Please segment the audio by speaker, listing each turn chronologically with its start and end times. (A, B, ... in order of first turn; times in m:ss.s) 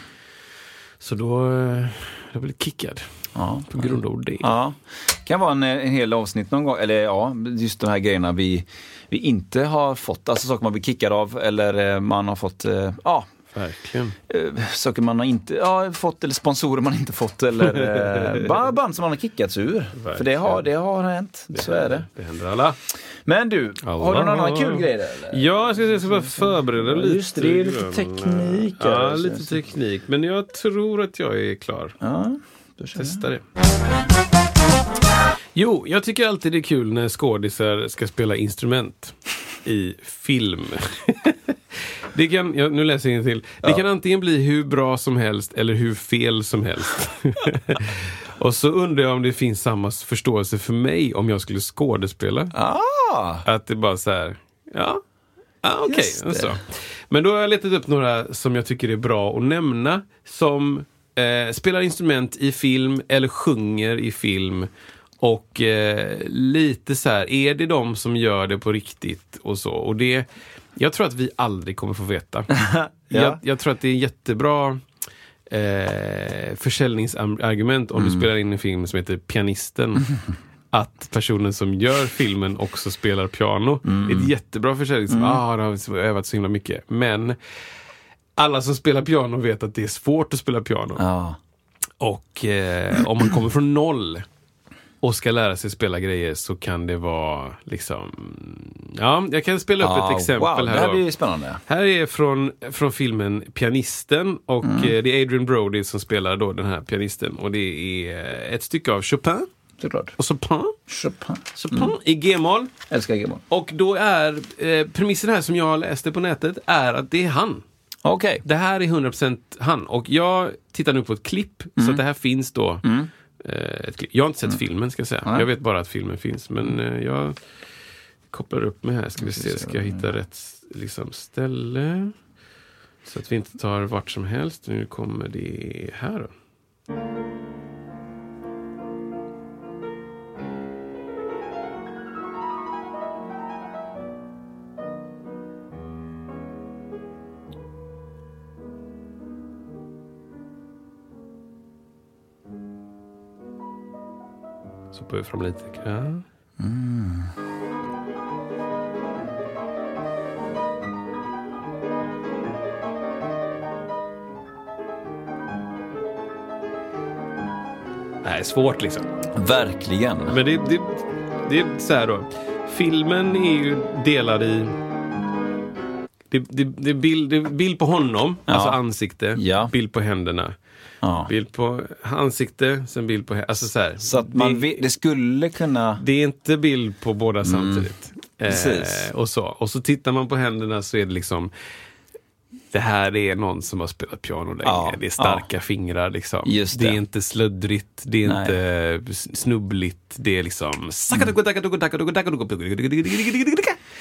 0:01.0-0:03.0 A
0:03.4-0:13.3 B
0:03.7-0:04.5 A
0:13.5-0:14.2 A
0:14.3-0:22.0 B
0:17.8-0:18.5 A
0:19.9-0:20.6 A
0:21.5-0:22.8 A
0:23.2-0:29.6 B
0:23.8-0:32.0 A
0:32.0-0:33.2 B
0:33.0-0:33.4 A
0:35.5-0:52.5 A
0:52.5-0:53.4 B
0:53.4-0:55.0 A
0:55.6-1:04.7 A
0:55.8-0:56.6 B
1:05.2-1:14.8 A
1:12.6-1:13.4 B
1:15.5-1:20.1 A
1:18.0-1:18.2 B
1:20.7-1:27.4 A
1:23.8-1:24.3 B
1:25.1-1:25.4 B
1:28.4-1:31.0 A
1:31.0-1:31.4 B
1:32.0-1:34.2 A
1:35.0-1:41.0 A
1:39.8-1:41.6 B
1:41.7-1:49.5 A
1:44.6-1:44.9 B
1:49.8-1:50.2 B
1:50.2-1:50.8 A
1:50.9-1:51.9 B
1:51.5-1:52.7 A
1:52.9-1:53.4 B
1:53.5-1:57.6 A
1:58.0-1:58.4 B
1:58.4-2:02.8 A
2:02.8-2:03.1 B
2:03.4-2:07.4 A
2:08.3-2:12.1 A
2:09.2-2:10.1 B
2:13.0-2:16.3 A
2:34.9-2:36.2 A
2:36.6-2:37.3 B
2:48.2-2:49.1 A
2:49.4-2:50.4 B
2:50.3-2:54.7 A
2:56.3-3:00.5 A
2:58.5-2:58.8 B
2:59.3-2:59.7 B
3:01.0-3:01.3 B
3:01.3-3:04.8 A
3:04.0-3:06.0 B
3:06.0-3:11.5 A
3:07.4-3:07.9 B
3:08.5-3:09.1 B
3:12.7-3:23.8 A
3:14.6-3:15.4 B
3:16.4-3:17.0 B
3:18.2-3:18.6 B